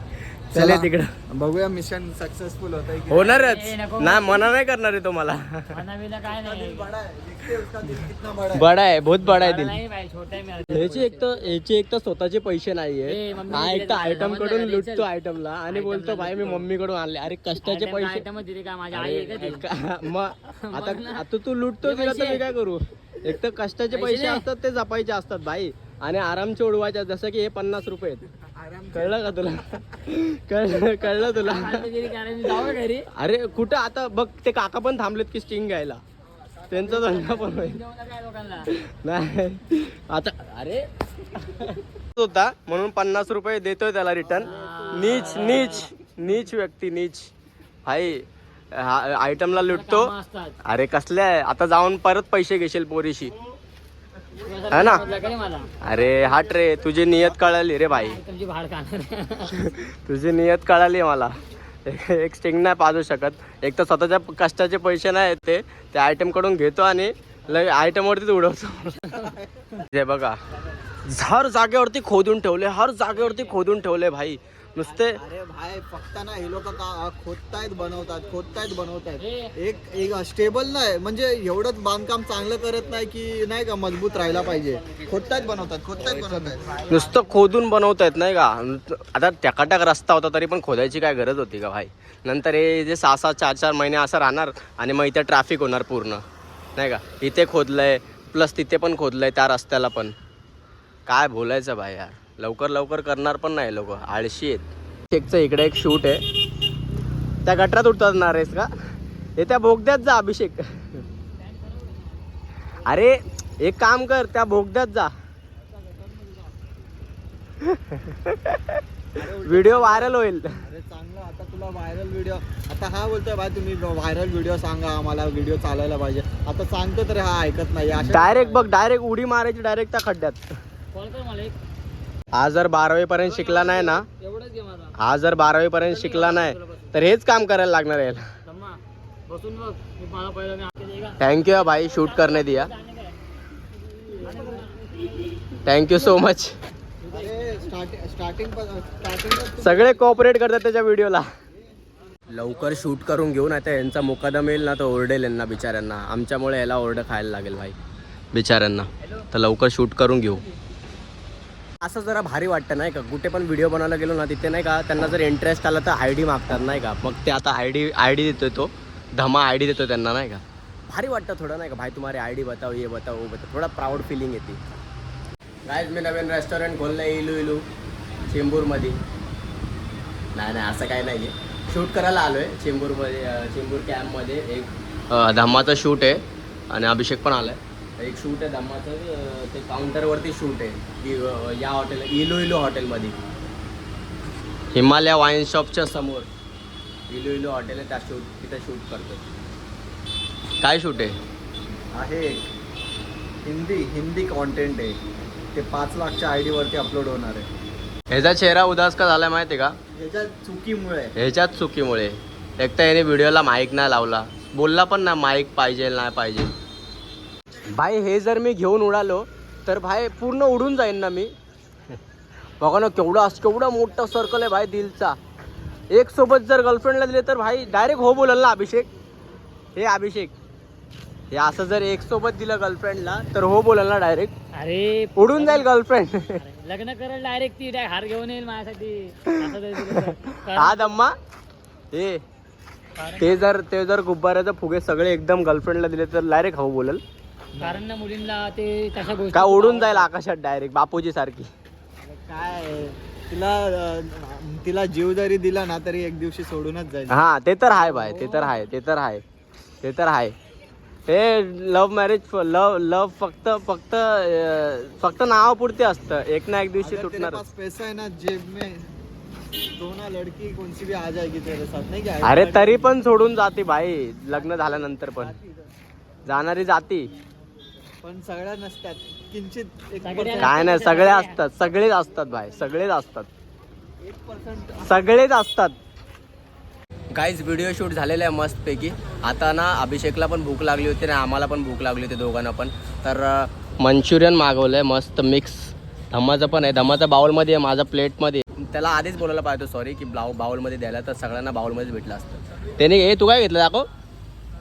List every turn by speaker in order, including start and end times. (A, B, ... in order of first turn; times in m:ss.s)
0:00.5-0:01.1 A
0:00.5-0:03.4 B
0:03.1-0:05.8 A
0:03.1-0:04.5 C
0:05.7-0:06.9 C
0:06.3-0:08.7 B
0:08.5-0:09.8 A
0:09.2-0:11.4 C
0:10.7-0:18.2 A
0:13.0-0:15.1 C
0:15.7-0:16.7 C
0:17.6-0:19.7 C
0:18.9-0:28.3 A
0:20.5-0:21.2 C
0:21.8-0:22.4 C
0:23.9-0:24.4 C
0:28.6-0:29.3 B
0:28.9-0:31.9 A
0:31.3-0:33.1 C
0:33.1-0:36.0 A
0:36.7-0:37.8 A
0:36.9-0:38.7 C
0:38.7-0:47.3 A
0:44.4-0:45.9 C
0:44.5-0:44.8 B
0:47.8-0:50.1 A
0:49.6-0:50.6 C
0:50.6-0:53.3 A
0:54.4-0:55.7 C
0:54.7-0:55.0 A
0:55.8-0:58.2 A
0:57.9-0:59.7 C
0:59.5-1:01.3 A
1:01.8-1:09.2 A
1:09.1-1:09.6 B
1:09.7-1:10.4 A
1:11.0-1:15.2 A
1:14.8-1:26.8 B
1:19.2-1:19.5 C
1:26.1-1:27.1 C
1:26.9-1:36.2 A
1:36.8-1:40.1 A
1:41.0-1:46.2 A
1:47.4-1:48.7 A
1:49.4-1:51.0 A
1:51.4-1:52.1 C
1:52.8-1:55.1 A
1:55.7-1:56.8 B
1:57.6-1:58.8 A
1:59.1-2:08.8 B
1:59.4-2:00.6 A
2:08.1-2:10.4 A
2:10.9-2:11.6 C
2:12.3-2:14.0 A
2:13.2-2:15.0 C
2:15.0-2:18.2 A
2:15.8-2:16.9 C
2:18.4-2:23.2 C
2:21.2-2:22.7 A
2:24.2-2:25.1 C
2:25.6-2:26.5 A
2:27.0-2:27.3 C
2:27.1-2:30.0 B
2:29.6-2:31.3 A
2:32.3-2:37.8 A
2:38.3-2:40.4 A
2:41.8-2:54.6 A
2:55.6-2:57.6 A
2:58.3-2:59.0 A
3:00.3-3:13.2 A
3:14.7-3:16.3 A
3:17.1-3:19.2 A
3:20.6-3:21.2 A
3:21.9-3:22.5 B
3:23.4-3:25.0 B
3:25.5-3:27.5 B
3:28.1-3:29.8 A
3:29.9-3:31.1 B
3:31.2-3:36.5 A
3:37.7-3:41.3 A
3:42.6-3:45.2 A
3:45.9-3:48.9 A
3:49.8-3:50.3 A
3:51.3-3:54.3 A
3:54.5-3:55.7 C
3:55.2-3:56.4 A
3:56.2-4:01.0 C
3:59.2-4:01.1 A
4:01.9-4:02.2 A
4:03.0-4:03.5 C
4:03.2-4:07.0 A
4:07.6-4:07.8 B
4:07.6-4:10.1 C
4:09.3-4:11.5 A
4:12.0-4:18.5 B
4:17.1-4:19.2 A
4:19.8-4:20.3 A
4:21.1-4:27.4 A
4:26.8-4:28.9 B
4:29.8-4:32.9 B
4:32.2-4:35.3 A
4:34.5-4:35.5 B
4:36.2-4:37.1 A
4:38.0-4:40.7 B
4:40.0-4:41.4 C
4:40.4-4:43.3 A
4:44.0-4:45.2 B
4:44.8-4:45.8 A
4:47.1-5:03.9 A